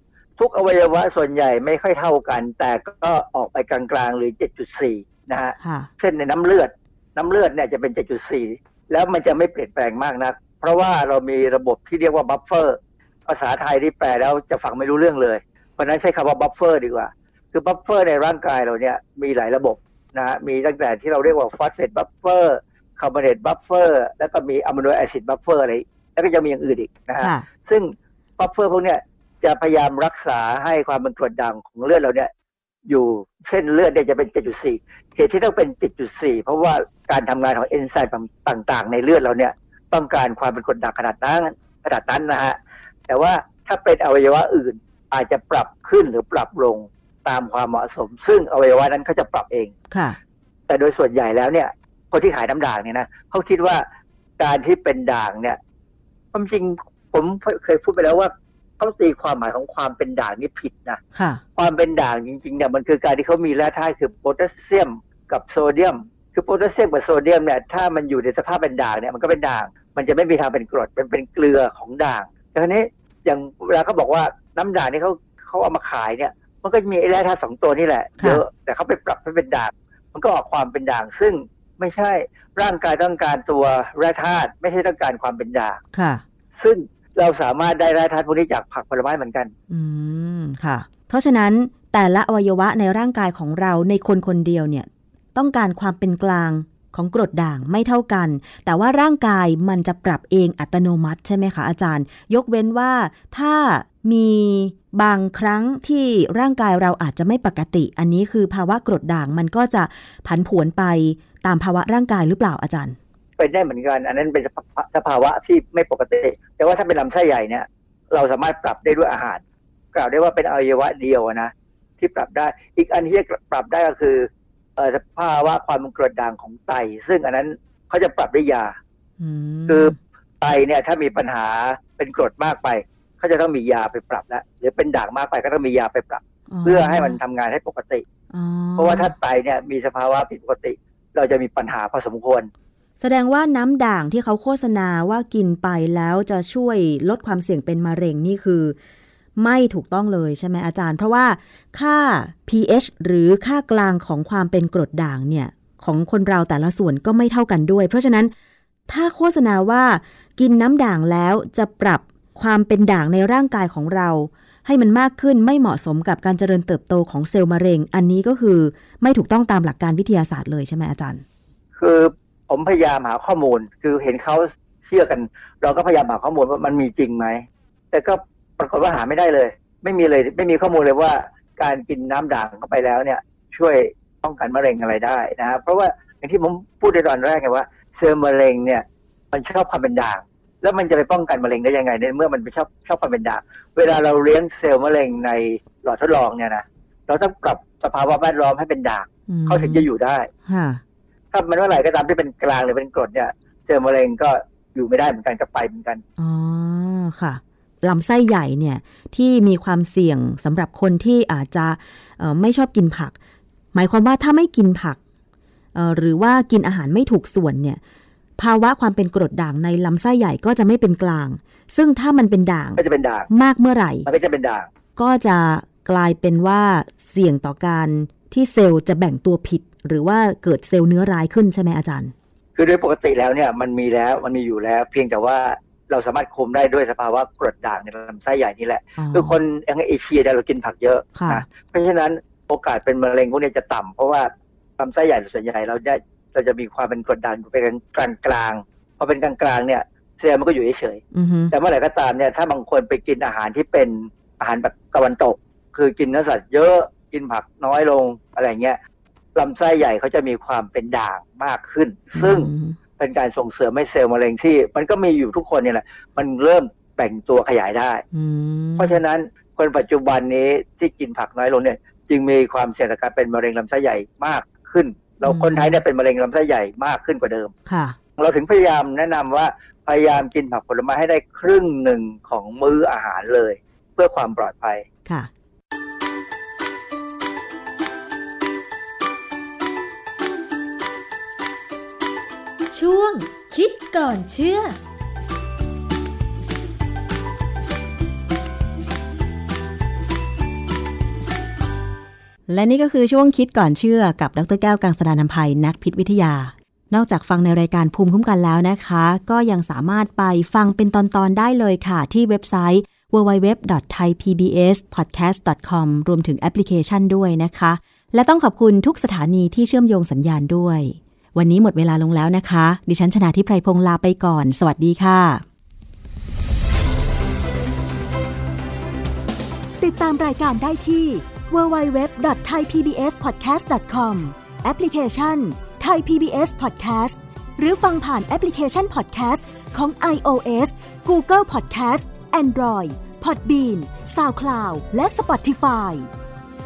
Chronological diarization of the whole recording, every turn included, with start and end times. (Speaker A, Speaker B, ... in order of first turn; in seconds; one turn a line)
Speaker A: 0.4-32.3
Speaker B: 5.6-5.9
Speaker B: 27.2-27.4
Speaker A: 32.9-42.6
Speaker A: 43.1-49.7
Speaker B: 49.9-50.2
Speaker A: 50.7-53.8
Speaker A: 54.4-55.6
Speaker A: 56.3-61.0
Speaker B: 61.1-61.4
Speaker A: 61.6-85.8
Speaker B: 85.9-86.2
Speaker A: 86.5-89.5
Speaker B: 89.7-113.0
Speaker A: 113.4-128.8
Speaker B: 129.2-130.0
Speaker A: 129.7-138.0
Speaker B: 136.5-137.2
Speaker B: 138.3-139.1
Speaker A: 138.8-142.5
Speaker B: 143.0-148.8
Speaker B: 149.4-158.3
Speaker B: 158.9-171.2
Speaker A: 171.8-200.3
Speaker B: 199.3-199.9
Speaker B: 200.5-200.8
Speaker A: 201.3-206.0
Speaker B: 206.2-213.2
Speaker B: 213.7-215.0
Speaker B: 215.7-217.8
Speaker B: 218.4-224.1
Speaker A: 222.8-223.3
Speaker A: 224.1-224.7
Speaker B: 225.0-232.1
Speaker A: 232.6-258.8
Speaker B: 239.0-239.4
Speaker B: 241.1-241.4
Speaker B: 251.1-251.5
Speaker A: 259.4-268.0
Speaker B: 262.1-262.8
Speaker B: 268.1-269.0
Speaker A: 268.8-277.5
Speaker B: 275.2-275.8
Speaker B: 277.6-278.0
Speaker A: 278.2-284.8
Speaker C: 292.7-294.8
Speaker B: 302.5-325.4
Speaker B: 329.8-346.1